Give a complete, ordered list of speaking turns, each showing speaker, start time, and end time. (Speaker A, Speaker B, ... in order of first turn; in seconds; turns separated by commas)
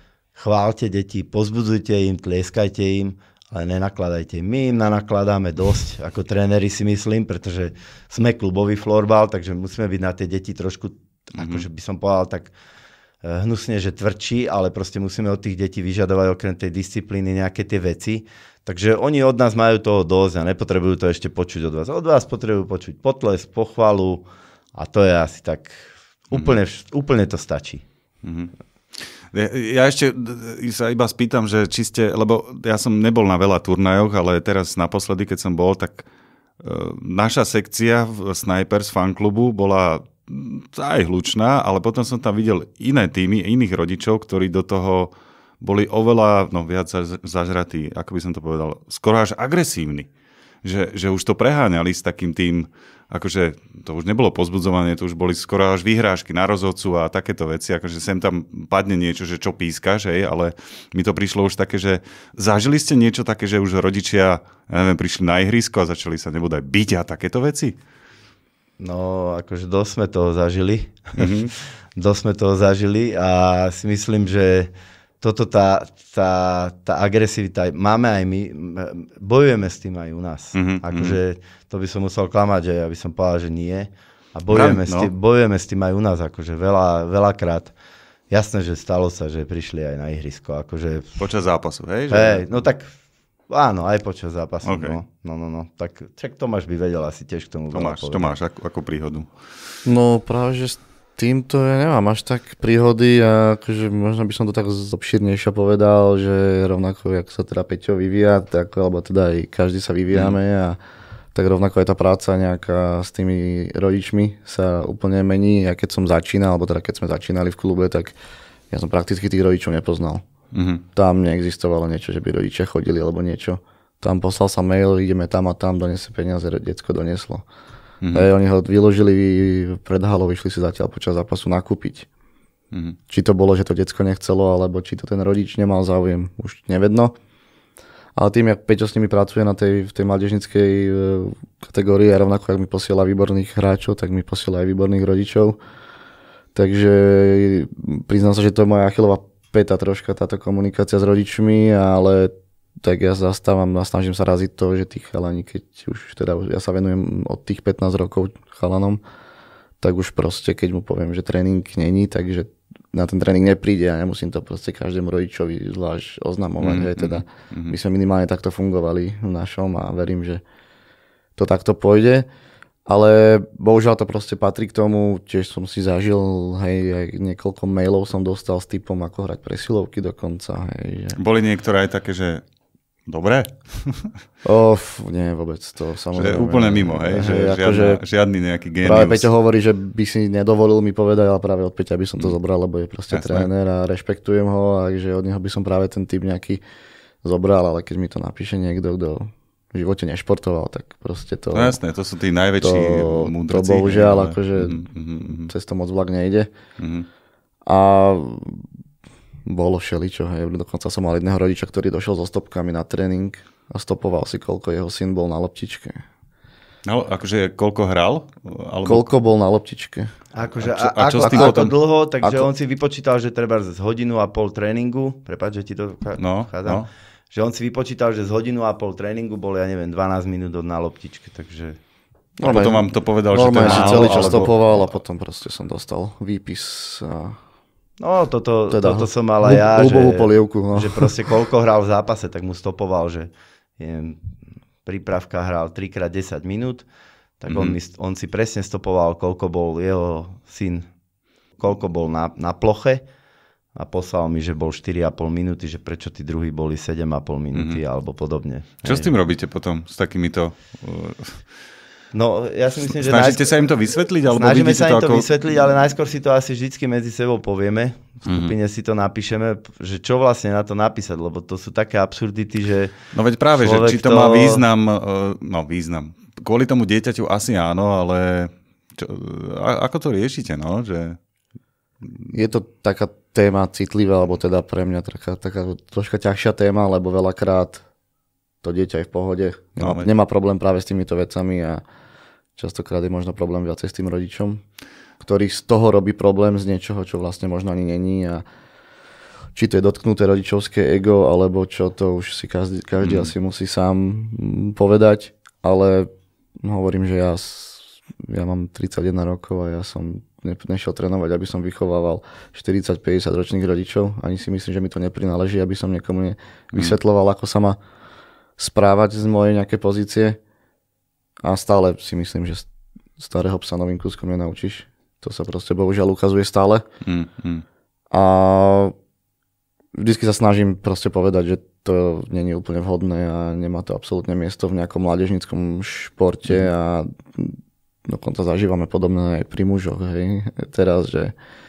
Speaker A: 0.3-12.5, Speaker B: 11.3-11.6, Speaker A: 13.2-27.8, Speaker B: 28.2-36.1, Speaker B: 36.6-50.1, Speaker B: 50.6-67.8, Speaker A: 68.8-87.7, Speaker B: 71.2-71.5, Speaker B: 80.5-81.2, Speaker B: 84.5-85.1, Speaker A: 88.3-91.2, Speaker B: 91.2-92.5, Speaker A: 92.1-92.9, Speaker A: 93.5-98.3, Speaker B: 94.6-95.0, Speaker B: 97.7-99.3, Speaker C: 99.8-110.8, Speaker B: 110.1-110.4, Speaker C: 111.3-118.2, Speaker C: 118.7-120.2, Speaker B: 120.5-120.8, Speaker C: 120.9-127.4, Speaker B: 128.0-128.3, Speaker C: 128.1-132.1, Speaker B: 132.7-133.0, Speaker C: 133.1-137.1, Speaker C: 138.2-145.6, Speaker C: 146.5-159.0, Speaker C: 159.8-170.4, Speaker B: 166.6-167.8, Speaker C: 171.3-172.3, Speaker C: 172.9-181.2, Speaker B: 181.2-182.4, Speaker B: 183.1-184.1, Speaker C: 184.4-188.0, Speaker B: 186.1-189.3, Speaker C: 188.8-196.6, Speaker B: 193.1-193.5, Speaker C: 197.2-201.8, Speaker B: 201.5-205.5, Speaker C: 202.6-204.9, Speaker C: 205.4-206.5, Speaker B: 206.8-207.1, Speaker C: 207.7-208.7, Speaker C: 209.4-216.0, Speaker B: 216.8-219.1, Speaker C: 218.8-220.1, Speaker A: 220.3-231.8, Speaker B: 220.6-221.7, Speaker C: 221.2-221.7, Speaker C: 222.2-222.5, Speaker B: 226.2-226.9, Speaker C: 232.4-237.4, Speaker B: 232.4-234.5, Speaker A: 233.6-234.5, Speaker A: 238.0-244.2, Speaker C: 238.7-241.1, Speaker A: 244.8-246.8, Speaker A: 247.4-250.8, Speaker B: 247.5-247.8, Speaker A: 251.6-253.0, Speaker A: 253.8-259.1, Speaker B: 257.5-257.8, Speaker B: 258.8-261.4, Speaker A: 262.1-263.6, Speaker B: 262.9-265.3, Speaker A: 264.3-272.9, Speaker B: 268.3-268.5, Speaker B: 273.1-281.2, Speaker A: 273.6-274.6, Speaker B: 282.0-282.3, Speaker C: 282.3-287.8, Speaker C: 288.6-291.8, Speaker B: 289.8-290.1, Speaker C: 292.6-294.6, Speaker C: 295.2-298.4, Speaker C: 299.5-306.1, Speaker B: 303.0-303.3, Speaker C: 306.6-317.8, Speaker C: 318.6-320.4, Speaker C: 321.4-326.8, Speaker B: 327.0-327.6, Speaker C: 328.1-328.9, Speaker C: 329.9-341.3